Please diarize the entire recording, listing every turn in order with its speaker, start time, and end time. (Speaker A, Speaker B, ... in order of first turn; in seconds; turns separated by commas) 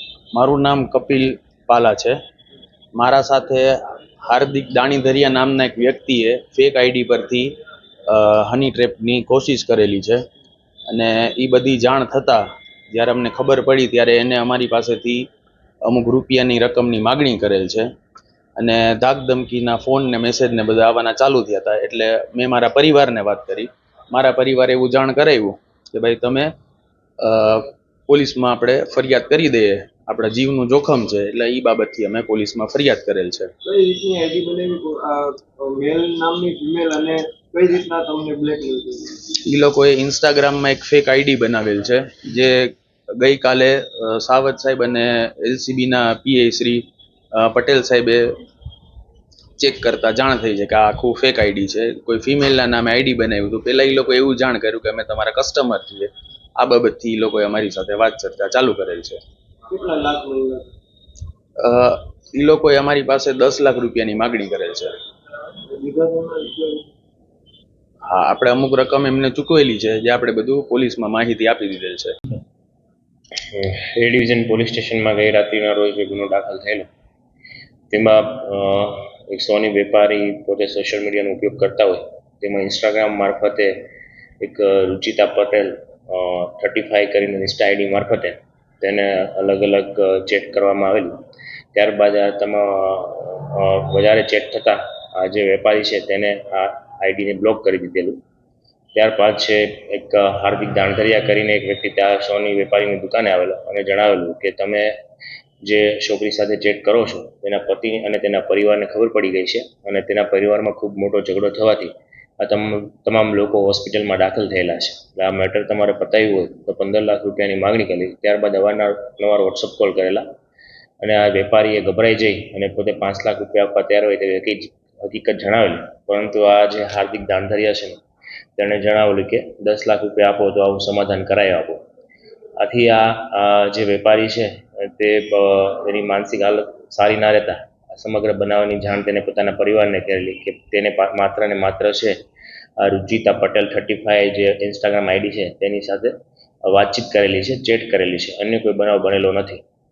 Speaker A: 0.3-2.1, Speaker A: 2.9-7.5, Speaker A: 8.1-10.2, Speaker A: 10.9-15.2, Speaker A: 15.8-17.9, Speaker A: 18.6-26.5, Speaker A: 27.2-33.5, Speaker B: 33.6-39.2, Speaker A: 39.4-48.4, Speaker A: 49.6-59.2, Speaker B: 59.7-60.6, Speaker A: 61.6-65.0, Speaker B: 65.7-66.8, Speaker A: 68.0-72.1, Speaker C: 73.5-76.9, Speaker C: 77.9-83.9, Speaker C: 84.4-91.2, Speaker C: 91.7-98.2, Speaker C: 98.9-104.9, Speaker C: 105.6-120.2, Speaker C: 121.0-128.0, Speaker C: 128.6-131.8, Speaker C: 132.6-142.2, Speaker C: 142.8-146.1, Speaker C: 146.7-149.6